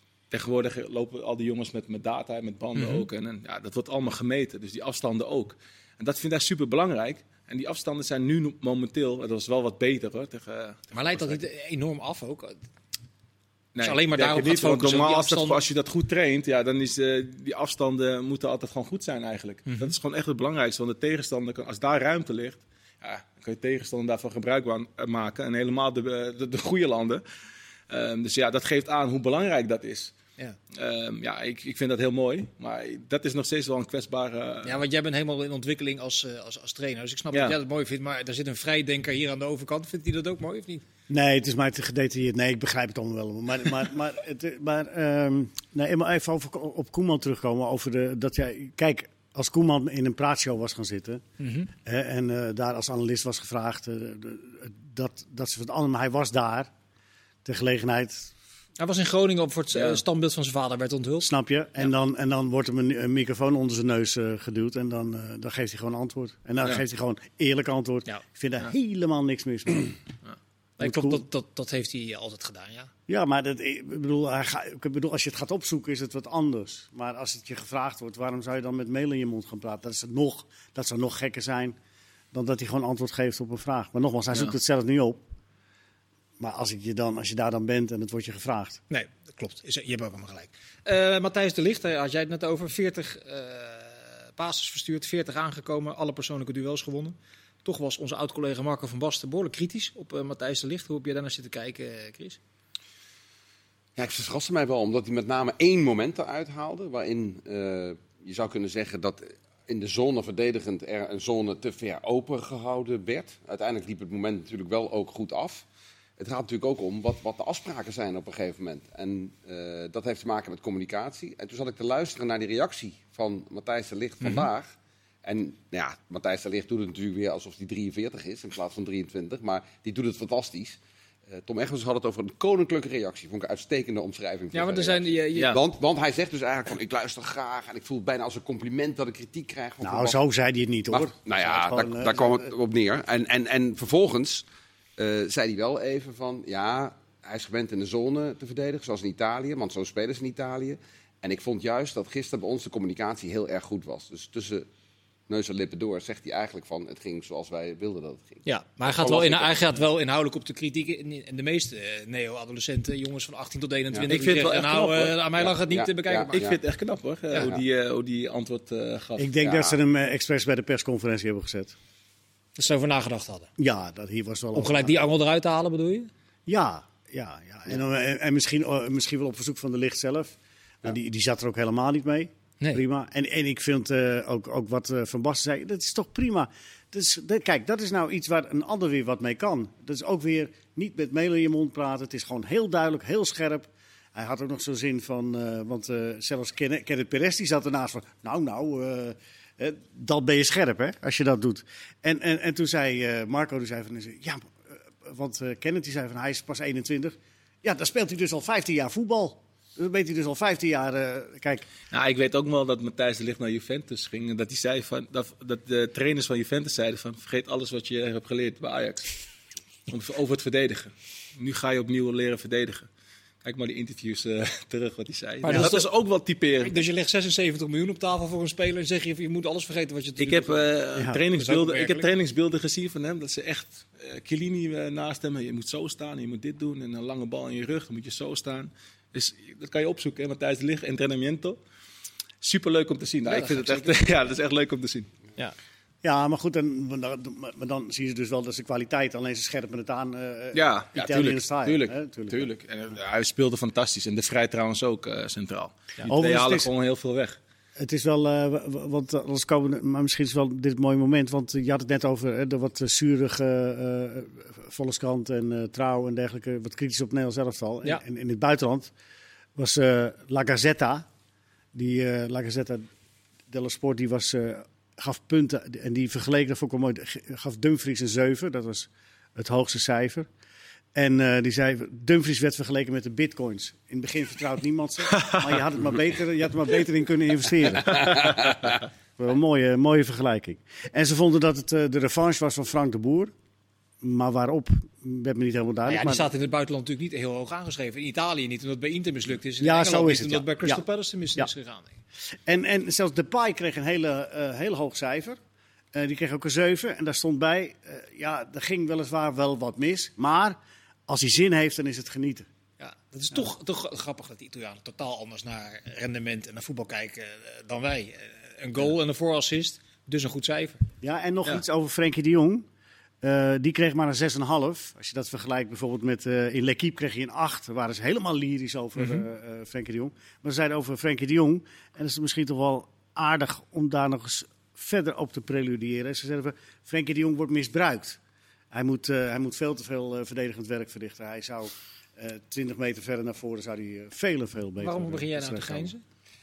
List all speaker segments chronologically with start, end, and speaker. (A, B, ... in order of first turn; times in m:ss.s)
0:00.3-0:11.4 A
0:02.8-0:03.1 B
0:10.9-0:12.6 B
0:13.7-0:27.2 A
0:13.8-0:15.6 B
0:19.7-0:19.9 B
0:27.9-0:30.1 A
0:30.7-0:34.8 A
0:34.6-0:40.8 B
0:37.3-0:37.6 A
0:41.1-0:51.2 C
0:51.4-0:51.7 B
0:51.8-0:56.7 C
0:57.4-0:58.3 C
0:58.8-1:01.9 B
0:59.7-1:00.0 A
1:01.2-1:10.0 C
1:10.8-1:12.9 B
1:10.8-1:11.2 C
1:13.1-1:21.8 C
1:22.3-1:25.2 C
1:26.4-1:28.8 C
1:28.9-1:42.4 B
1:44.0-1:55.7 D
1:56.2-2:10.8 D
2:04.2-2:04.5 B
2:11.3-2:20.2 D
2:14.5-2:15.6 B
2:19.8-2:22.5 C
2:20.9-2:24.5 D
2:25.0-2:34.7 D
2:35.3-2:39.4 D
2:38.4-2:46.4 B
2:44.1-2:45.2 A
2:45.4-2:46.6 D
2:46.3-2:49.3 A
2:47.4-2:47.6 D
2:49.2-2:51.8 C
2:49.4-2:49.8 D
2:52.6-2:53.5 B
2:53.6-2:55.0 C
2:54.5-2:56.1 B
2:56.5-3:31.6 C
3:31.9-3:39.1 A
3:39.9-3:42.9 A
3:43.4-3:46.8 A
3:45.4-3:45.9 B
3:46.6-3:50.7 B
3:50.2-4:01.6 A
3:51.3-3:52.1 B
4:02.4-4:05.1 A
4:03.3-4:04.1 B
4:06.0-4:12.5 C
4:10.5-4:17.4 A
4:16.0-4:16.7 C
4:17.8-4:28.9 C
4:29.6-4:31.1 C
4:31.7-4:32.9 C
4:33.5-4:40.3 C
4:40.9-4:48.4 C
4:45.1-4:45.6 A
4:47.9-4:48.7 D
4:47.9-4:48.4 A
4:49.2-4:53.3 C
4:54.0-4:56.3 C
4:55.9-5:02.0 B
4:59.6-5:00.8 C
5:02.4-5:05.4 C
5:05.9-5:12.5 C
5:12.8-5:20.8 B
5:21.0-5:22.7 C
5:23.2-5:38.2 C
5:38.7-5:45.9 C
5:44.8-5:46.0 B